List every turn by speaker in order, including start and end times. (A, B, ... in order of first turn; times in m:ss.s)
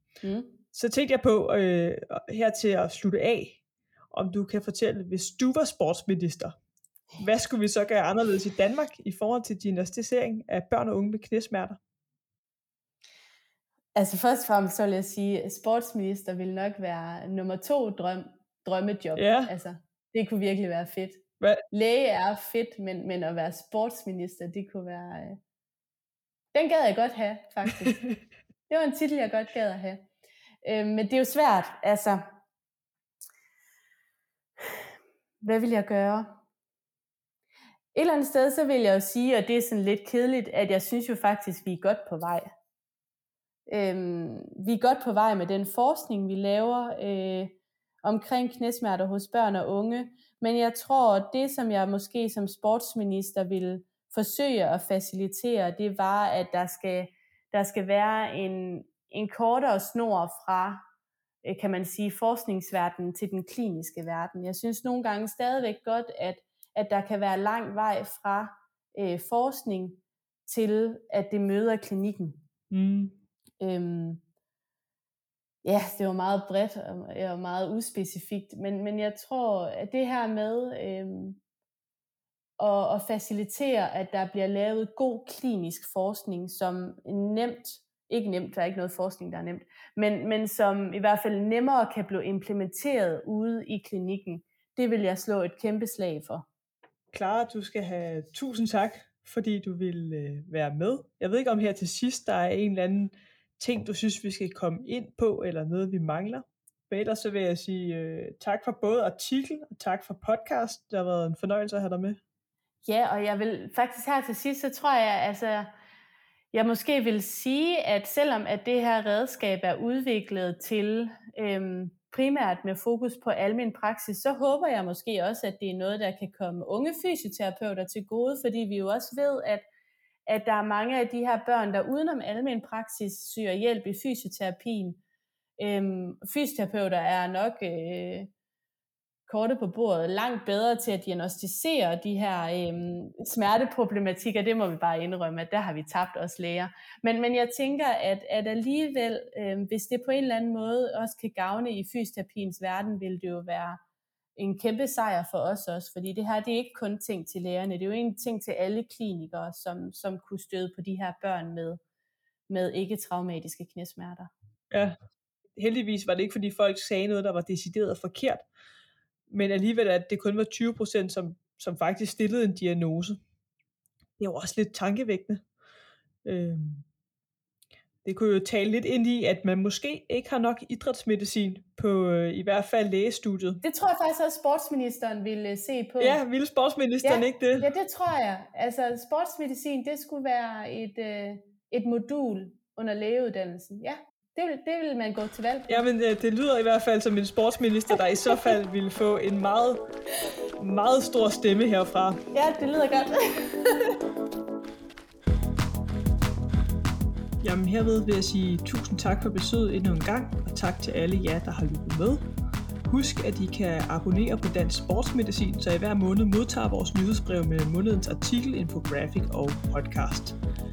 0:00.2-0:00.6 A
0:00.7-0:06.6 B
0:07.2-0:11.8 B
0:14.0-0:25.4 A
0:19.2-0:19.5 B
0:26.5-0:28.0 A
0:28.7-0:30.1 A
0:30.6-0:32.3 A
0:35.4-0:36.4 A
0:37.9-0:42.5 A
0:43.7-1:00.8 A
1:01.4-1:12.4 A
1:12.7-1:13.2 B
1:13.6-1:14.2 A
1:15.6-1:21.4 A
1:22.6-1:36.5 A
1:37.1-1:52.2 B
1:52.8-1:55.7 A
1:56.5-2:09.6 A
2:10.3-2:15.0 A
2:15.6-2:18.3 A
2:19.3-2:33.8 A
2:34.4-2:41.8 A
2:42.5-2:44.3 A
2:44.7-2:45.0 B
2:45.6-2:48.4 B
2:49.3-2:53.2 B
2:54.2-2:55.4 B
2:56.2-2:56.9 B
2:58.0-3:03.6 B
3:03.6-3:06.2 A
3:06.0-3:07.7 B
3:07.0-3:15.8 A
3:15.7-3:19.8 B
3:20.6-3:22.2 B
3:22.3-3:24.0 A
3:27.4-3:32.3 B
3:32.9-3:40.4 B